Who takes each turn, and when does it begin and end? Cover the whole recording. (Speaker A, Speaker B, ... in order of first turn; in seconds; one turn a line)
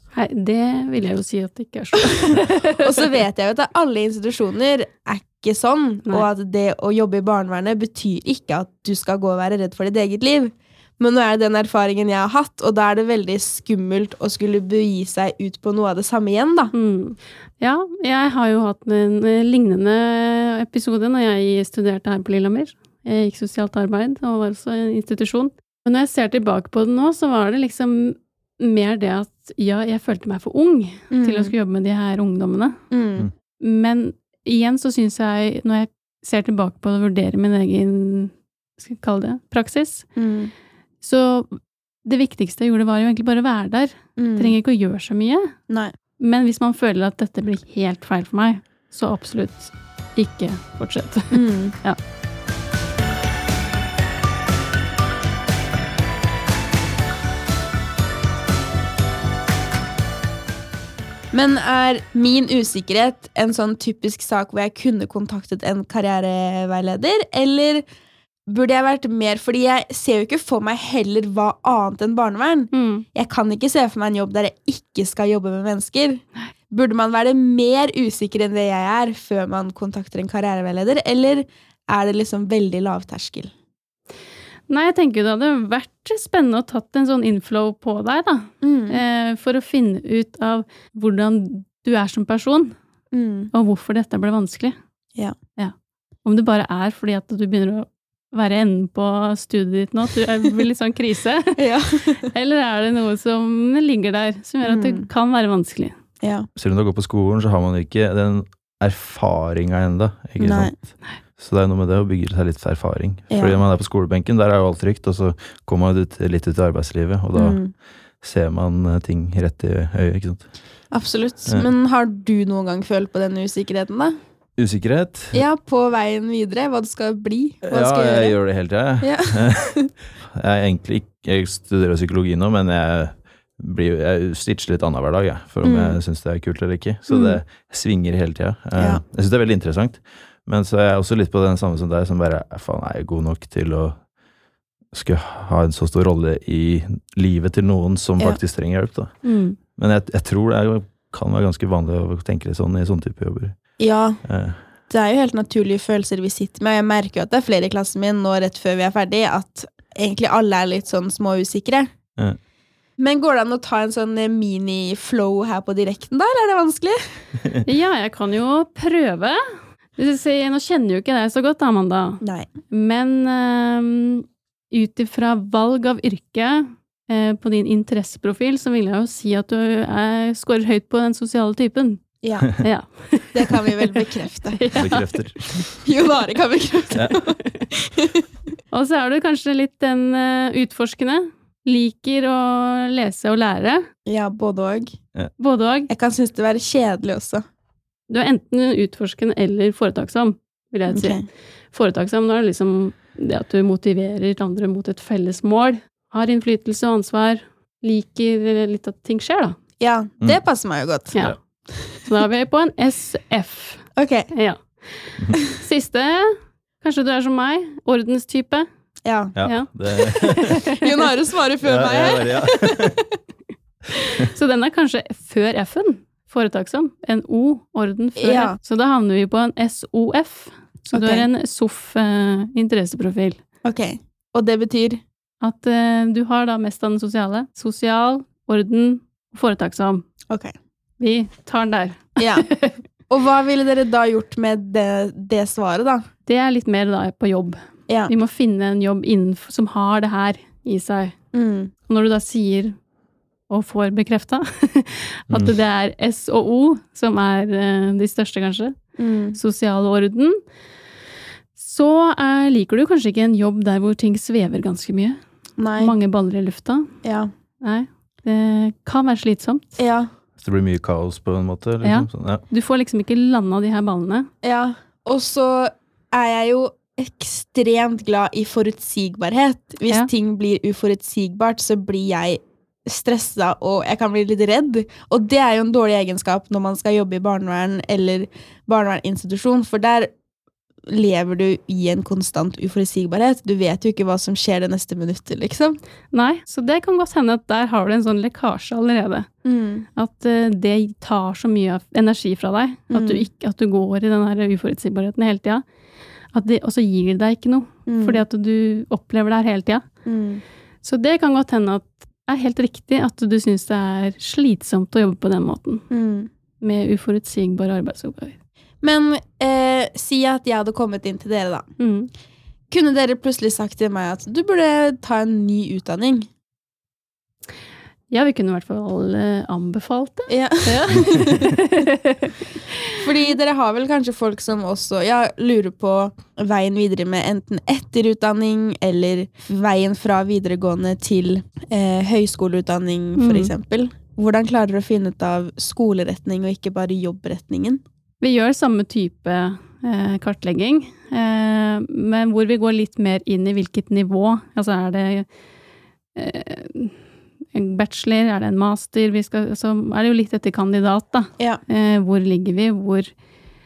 Speaker A: 0.1-3.0
Speaker B: 2.8-16.7
Speaker A: 16.7-32.8
Speaker B: 31.1-31.5
Speaker B: 32.9-33.3
Speaker A: 33.6-40.1
Speaker B: 40.2-40.5
Speaker A: 41.0-45.5
Speaker B: 44.2-44.6
Speaker A: 46.2-52.0
Speaker B: 51.3-51.8
Speaker B: 61.3-67.8
Speaker B: 68.5-83.5
Speaker A: 72.7-73.0
Speaker A: 84.7-92.8
Speaker B: 88.6-89.0
Speaker B: 93.1-93.5
Speaker A: 93.5-94.8
Speaker A: 95.6-101.6
Speaker B: 101.6-102.3
Speaker A: 102.3-106.0
Speaker B: 104.6-105.1
Speaker B: 106.2-106.5
Speaker C: 106.6-120.6
Speaker B: 110.4-110.8
Speaker B: 113.3-113.6
Speaker B: 117.3-117.8
Speaker B: 120.9-124.2
Speaker C: 124.6-125.5
Speaker B: 125.3-128.4
Speaker C: 127.6-144.1
Speaker B: 129.0-129.9
Speaker B: 135.6-136.0
Speaker B: 138.8-139.0
Speaker C: 144.9-154.6
Speaker A: 149.2-149.6
Speaker B: 153.8-154.2
Speaker B: 154.8-161.9
Speaker B: 163.0-167.0
Speaker A: 167.6-169.4
Speaker A: 170.0-183.6
Speaker B: 172.2-172.5
Speaker B: 182.2-182.6
Speaker B: 183.3-184.7
Speaker A: 184.6-185.6
Speaker C: 184.8-185.8
Speaker B: 185.8-188.2
Speaker A: 188.7-193.8
Speaker B: 194.0-195.0
Speaker A: 195.4-195.9
Speaker B: 195.9-197.4
Speaker A: 198.1-209.6
Speaker B: 200.9-201.2
Speaker B: 209.8-212.1
Speaker A: 211.1-218.7
Speaker B: 214.0-214.3
Speaker B: 219.0-219.4
Speaker C: 219.4-220.7
Speaker A: 219.4-220.8
Speaker B: 220.8-223.0
Speaker C: 221.6-223.0
Speaker A: 223.9-233.4
Speaker B: 228.2-228.6
Speaker B: 230.9-231.3
Speaker B: 233.6-235.0
Speaker A: 235.4-240.0
Speaker A: 241.0-242.8
Speaker B: 242.2-242.5
Speaker B: 243.1-246.0
Speaker A: 246.2-251.1
Speaker B: 251.3-251.7
Speaker A: 251.8-252.8
Speaker A: 253.5-258.8
Speaker C: 255.3-255.6
Speaker B: 259.0-259.4
Speaker A: 259.4-260.4
Speaker A: 261.5-265.2
Speaker B: 265.6-265.9
Speaker A: 265.7-266.9
Speaker B: 267.0-267.3
Speaker A: 267.6-269.6
Speaker B: 269.8-270.1
Speaker C: 270.4-272.4
Speaker A: 271.8-274.3
Speaker B: 274.4-290.1
Speaker B: 290.9-295.8
Speaker A: 296.1-299.3
Speaker B: 299.4-299.9
Speaker A: 299.9-305.6
Speaker B: 302.9-303.3
Speaker A: 306.3-309.8
Speaker B: 307.9-308.2
Speaker B: 310.0-310.4
Speaker A: 310.8-315.8
Speaker B: 315.9-316.3
Speaker A: 316.6-318.4
Speaker B: 318.8-321.7
Speaker A: 321.8-322.1
Speaker B: 322.7-326.3
Speaker A: 328.1-332.3
Speaker B: 330.3-331.3
Speaker B: 333.0-347.8
Speaker A: 343.2-343.5
Speaker A: 348.2-355.3
Speaker A: 356.1-357.0
Speaker A: 357.5-363.1